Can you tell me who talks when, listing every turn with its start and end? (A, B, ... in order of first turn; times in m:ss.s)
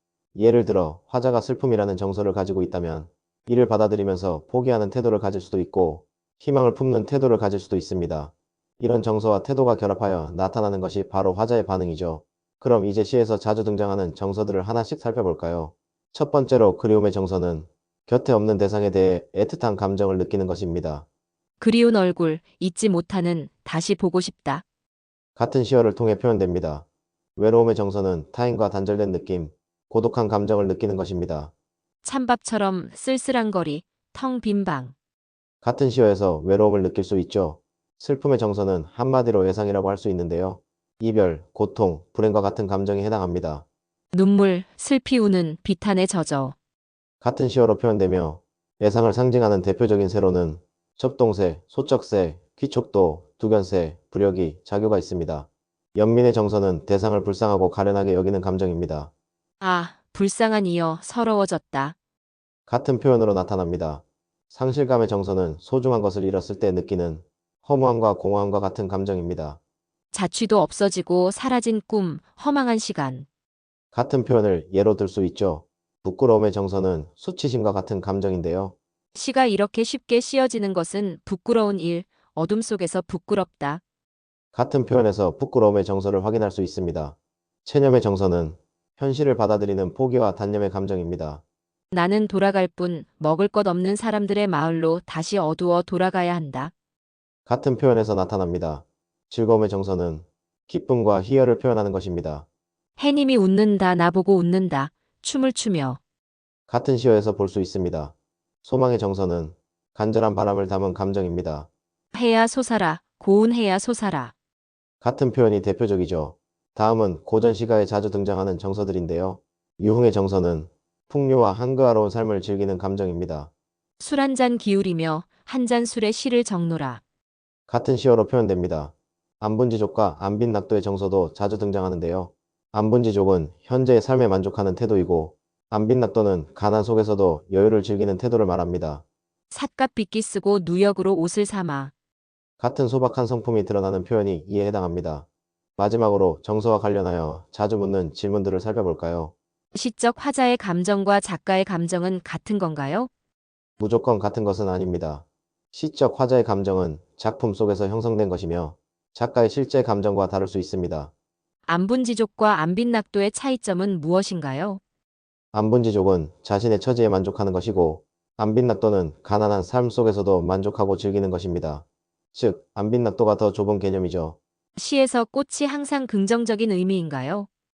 0:00.4-0:21.0 A
0:21.6-0:24.6 B
0:25.4-0:31.5 A
0:32.0-0:34.9 B
0:35.6-0:43.6 A
0:44.1-0:46.6 B
0:47.2-0:59.1 A
0:59.6-1:02.0 B
1:02.7-1:09.6 A
1:10.1-1:13.3 B
1:13.9-1:18.8 A
1:19.2-1:23.8 B
1:24.5-1:31.4 A
1:31.9-1:36.7 B
1:37.5-1:42.5 A
1:43.0-1:46.0 B
1:46.7-1:51.7 A
1:52.1-1:54.3 B
1:55.0-2:03.5 A
2:04.0-2:07.0 B
2:07.7-2:19.0 A
2:19.5-2:21.9 B
2:22.6-2:25.3 A
2:25.8-2:29.3 A
2:29.7-2:33.1 B
2:33.8-2:41.1 A
2:41.7-2:44.8 B
2:45.5-2:54.4 A
2:54.8-2:57.5 B